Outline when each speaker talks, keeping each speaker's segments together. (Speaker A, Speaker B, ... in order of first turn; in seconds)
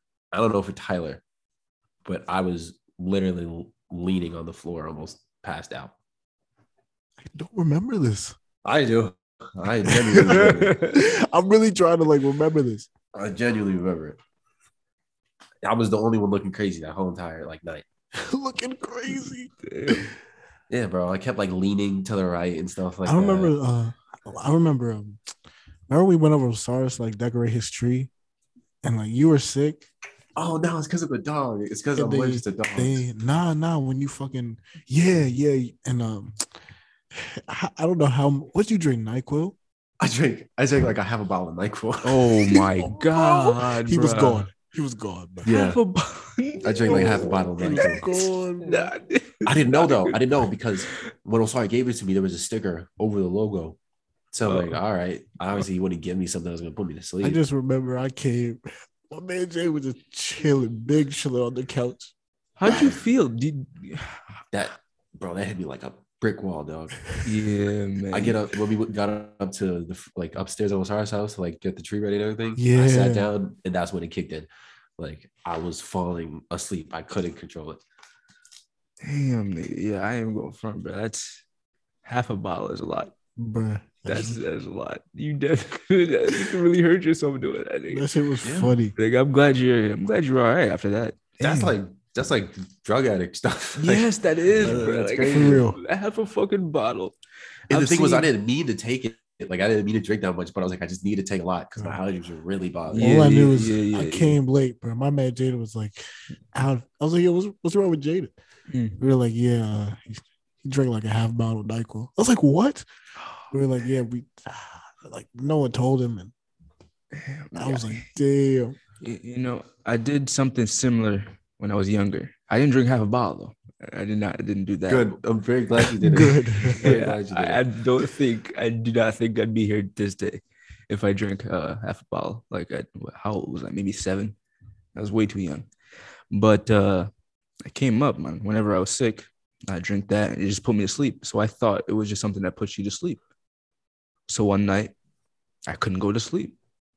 Speaker A: 0.3-1.2, 2.0-5.9, 8.6-10.8, 13.1-14.2, 15.6-17.9, 20.7-23.5, 30.4-33.0, 40.0-42.5, 45.4-45.8, 46.6-48.1, 49.4-53.8, 54.3-57.4, 62.6-63.0, 64.5-67.0, 68.1-77.8, 88.4-88.7, 91.4-95.7, 97.7-103.3, 124.9-127.6
Speaker B: 7.2-8.3, 9.9-12.9, 18.1-20.1, 23.0-25.2, 25.9-28.1, 28.8-29.9, 31.9-36.4, 37.1-39.5, 42.5-45.5, 46.9-48.9, 57.2-62.1, 72.5-73.3, 83.4-84.4, 87.9-88.9, 94.7-95.8, 103.0-108.3, 109.0-112.8, 113.5-116.3, 117.5-118.8, 126.0-126.8
Speaker C: 10.2-11.0, 19.6-20.1, 42.0-44.5, 45.5-50.2, 54.4-54.8, 62.6-64.2, 67.2-68.4, 79.0-81.4, 82.0-83.1, 84.0-88.0, 89.0-91.7, 93.8-97.2, 97.7-98.3, 102.9-104.4, 108.7-109.0, 117.1-118.0, 119.0-125.1, 126.8-134.4, 134.9-135.7, 136.3-137.1, 137.6-143.2, 144.3-144.9, 145.7-146.6